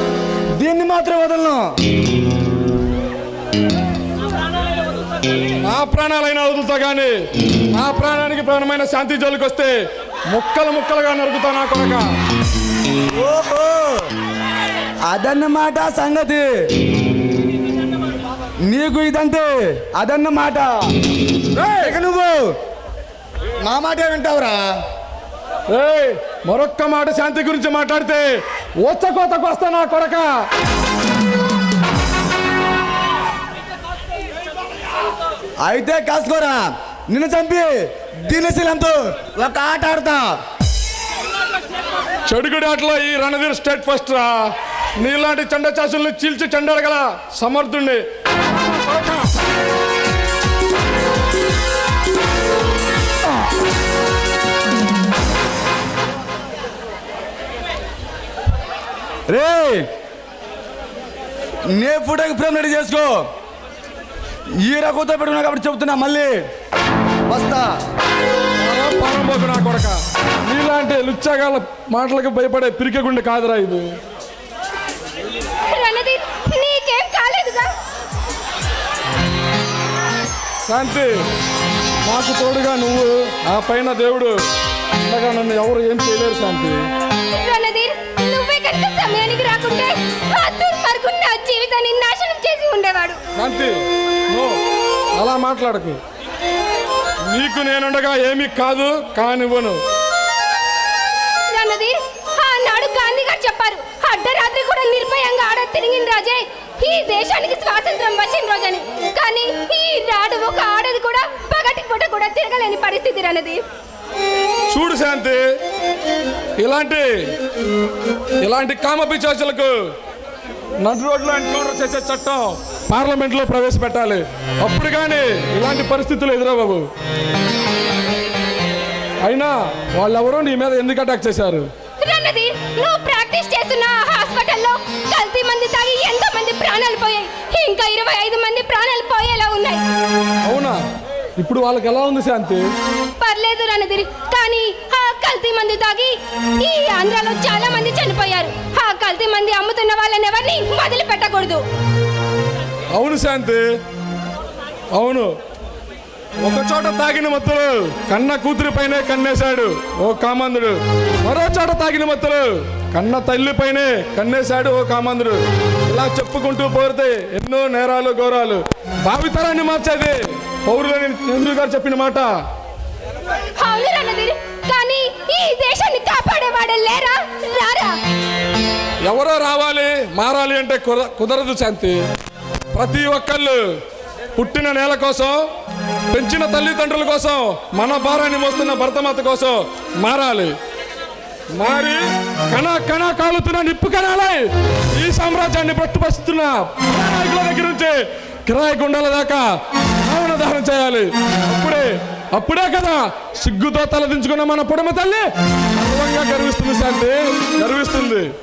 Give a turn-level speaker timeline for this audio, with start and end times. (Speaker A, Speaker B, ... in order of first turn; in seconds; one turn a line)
Speaker A: 0.6-1.7
Speaker B: 5.6-9.8
Speaker B: 10.3-12.1
Speaker A: 13.2-14.1
Speaker A: 15.1-16.5
Speaker A: 18.7-20.7
Speaker B: 21.5-22.0
Speaker A: 21.8-22.5
Speaker A: 23.6-24.6
Speaker B: 25.7-30.3
Speaker A: 35.6-40.3
Speaker B: 42.3-49.3
Speaker A: 59.3-59.9
Speaker A: 61.7-63.2
Speaker A: 64.6-66.4
Speaker A: 67.3-67.7
Speaker B: 68.6-74.0
Speaker C: 75.7-77.7
Speaker B: 80.7-81.1
Speaker B: 82.0-84.4
Speaker B: 85.0-86.9
Speaker C: 87.3-93.2
Speaker B: 93.3-94.6
Speaker B: 95.2-96.0
Speaker B: 97.3-99.8
Speaker C: 101.5-113.6
Speaker B: 114.7-115.4
Speaker B: 116.6-117.3
Speaker B: 118.4-119.8
Speaker B: 120.8-126.9
Speaker B: 129.2-131.7
Speaker C: 132.0-139.8
Speaker B: 140.4-140.8
Speaker B: 141.4-142.7
Speaker C: 143.2-151.6
Speaker B: 152.9-153.6
Speaker B: 154.9-155.3
Speaker B: 156.4-172.3
Speaker C: 173.6-177.9
Speaker B: 179.1-182.1
Speaker B: 182.7-183.8
Speaker B: 184.3-185.5
Speaker B: 186.1-190.6
Speaker B: 191.5-199.5
Speaker B: 200.0-208.3